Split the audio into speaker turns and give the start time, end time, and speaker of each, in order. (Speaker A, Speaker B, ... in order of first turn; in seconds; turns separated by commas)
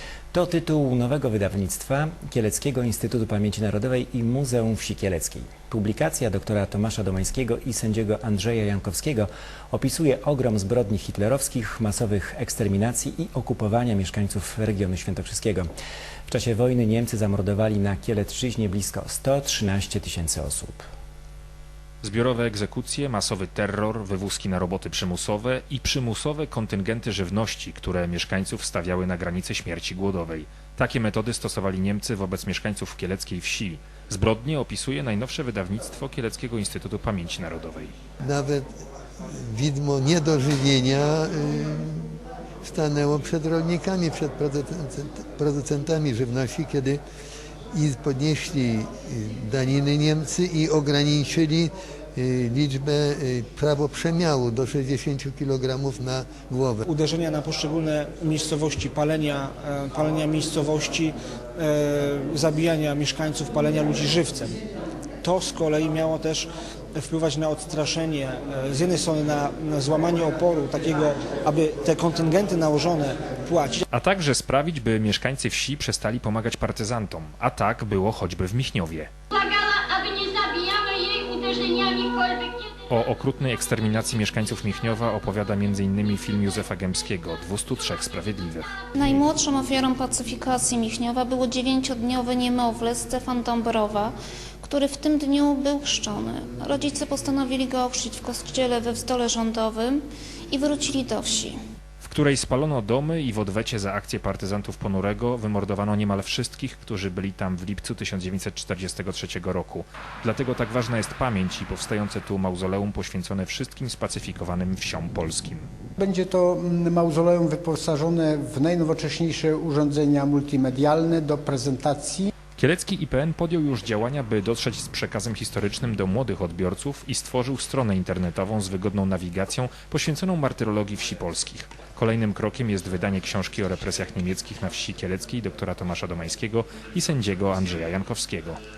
Speaker A: 0.3-15.7, Speaker A: 16.3-20.8, Speaker B: 22.0-37.9, Speaker C: 38.2-38.6, Speaker C: 39.3-47.0, Speaker C: 47.7-56.8, Speaker D: 56.9-64.6, Speaker D: 65.2-73.8, Speaker B: 73.9-79.1, Speaker E: 79.3-82.8, Speaker B: 82.9-88.7, Speaker F: 89.0-101.6, Speaker B: 102.0-115.7, Speaker G: 116.0-122.3, Speaker B: 122.5-138.6